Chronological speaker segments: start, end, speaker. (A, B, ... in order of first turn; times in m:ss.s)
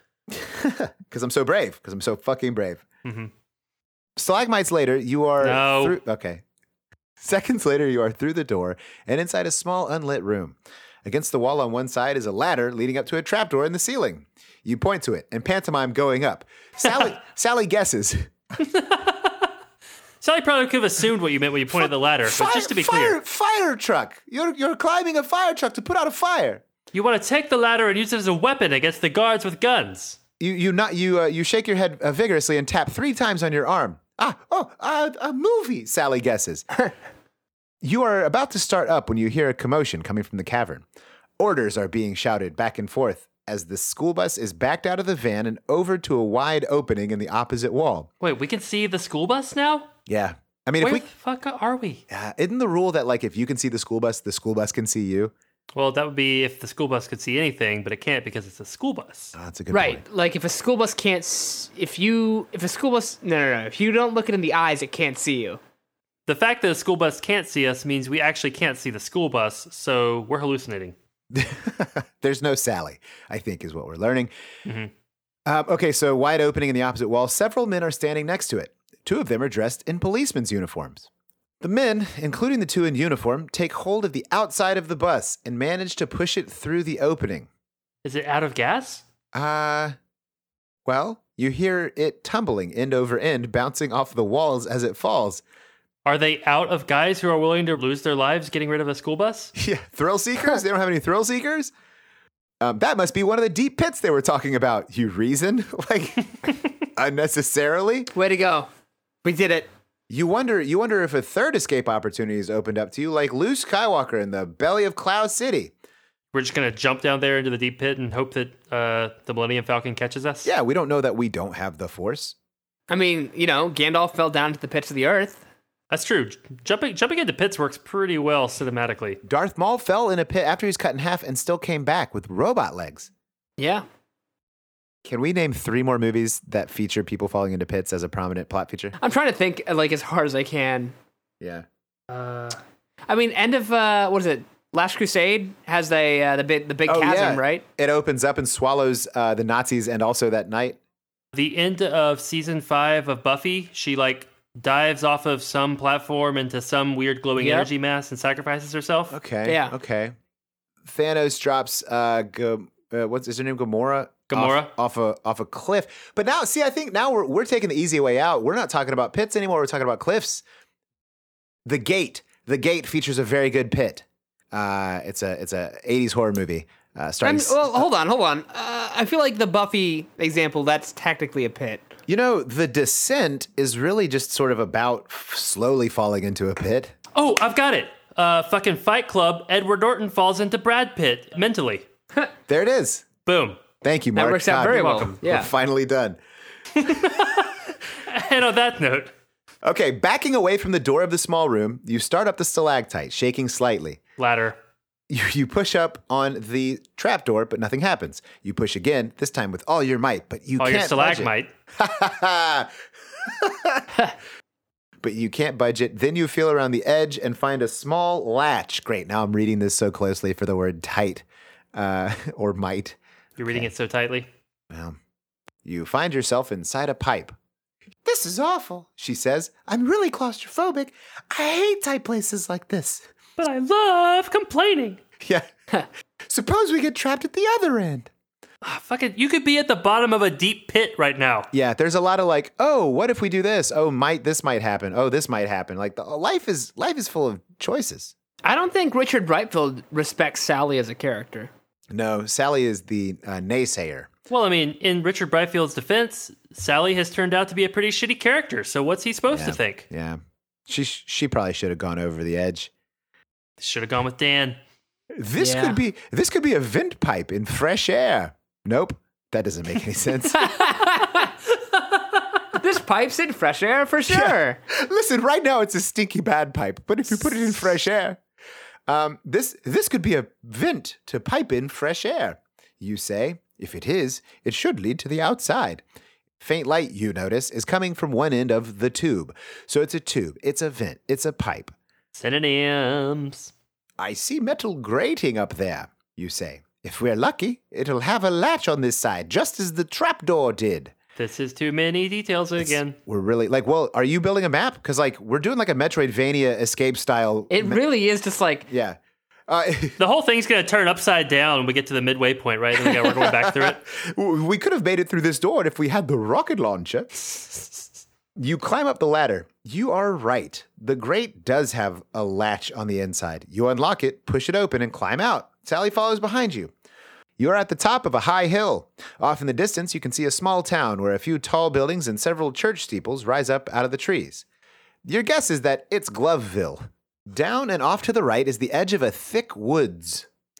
0:00.3-0:02.8 A
0:03.0-0:03.3 B
0:04.2-0:06.4 A
0:05.4-0:06.0 B
0:07.2-0:18.3 A
0:18.6-0:19.5 B
0:20.2-0:23.2 B
0:22.2-0:26.6 A
0:26.9-0:30.2 B
0:30.4-0:36.6 A
0:37.8-0:40.8 A
0:41.4-0:48.1 A
0:48.2-0:49.9 B
0:50.1-0:51.0 A
0:50.8-0:52.0 B
0:52.1-0:55.3 A
0:55.7-0:59.3 B
0:59.3-1:00.0 A
0:59.7-1:05.6 C
1:06.3-1:11.0 B
1:11.3-1:14.3 A
1:14.6-1:14.9 B
1:15.4-1:21.1 A
1:21.6-1:27.5 A
1:28.0-1:29.0 B
1:29.3-1:30.0 A
1:30.8-1:35.4 A
1:36.0-1:39.5 B
1:39.5-1:41.7 A
1:42.6-1:46.3 A
1:46.9-1:48.1 A
1:48.1-1:48.7 C
1:49.2-1:49.7 C
1:50.1-1:55.7 A
1:56.3-2:00.5 B
2:00.4-2:02.4 A
2:02.9-2:05.4 C
2:05.9-2:09.2 B
2:09.2-2:13.1 A
2:13.6-2:13.8 C
2:15.0-2:18.9 A
2:19.0-2:20.9 C
2:21.4-2:21.6 A
2:22.1-2:22.6 B
2:23.1-2:27.6 C
2:26.9-2:30.8 A
2:31.3-2:39.2 B
2:37.4-2:37.7 C
2:39.1-2:40.1 A
2:39.4-2:39.7 C
2:40.8-2:50.4 A
2:44.3-2:44.7 B
2:51.6-2:57.8 A
2:57.2-3:01.9 C
3:02.1-3:06.9 A
3:07.1-3:11.8 B
3:12.5-3:13.0 A
3:13.2-3:13.6 B
3:13.8-3:16.2 A
3:14.1-3:15.5 C
3:14.6-3:15.2 B
3:16.8-3:19.1 B
3:19.6-3:24.0 A
3:24.2-3:24.6 B
3:25.1-3:33.9 A
3:30.6-3:31.5 B
3:35.0-3:43.0 A
3:43.4-3:44.3 B
3:44.7-3:45.0 A
3:45.6-3:47.4 A
3:48.0-3:53.1 A
3:53.4-3:55.0 B
3:55.2-3:55.5 A
3:56.3-3:58.1 A
3:58.6-4:01.5 B
4:01.5-4:08.1 A
4:08.4-4:11.5 C
4:11.9-4:14.1 A
4:14.3-4:19.9 B
4:19.3-4:22.7 A
4:23.6-4:24.6 B
4:25.1-4:30.5 A
4:25.4-4:25.8 C
4:30.3-4:31.3 C
4:32.5-4:34.6 C
4:34.1-4:38.2 A
4:38.9-4:45.8 A
4:46.4-4:51.7 A
4:52.1-4:53.5 B
4:54.0-5:00.9 A
5:01.2-5:03.0 B
5:02.6-5:07.8 A
5:07.5-5:08.7 C
5:08.7-5:10.0 A
5:10.0-5:13.8 B
5:12.8-5:17.4 A
5:18.4-5:26.7 A
5:27.4-5:34.4 A
5:35.0-5:40.3 A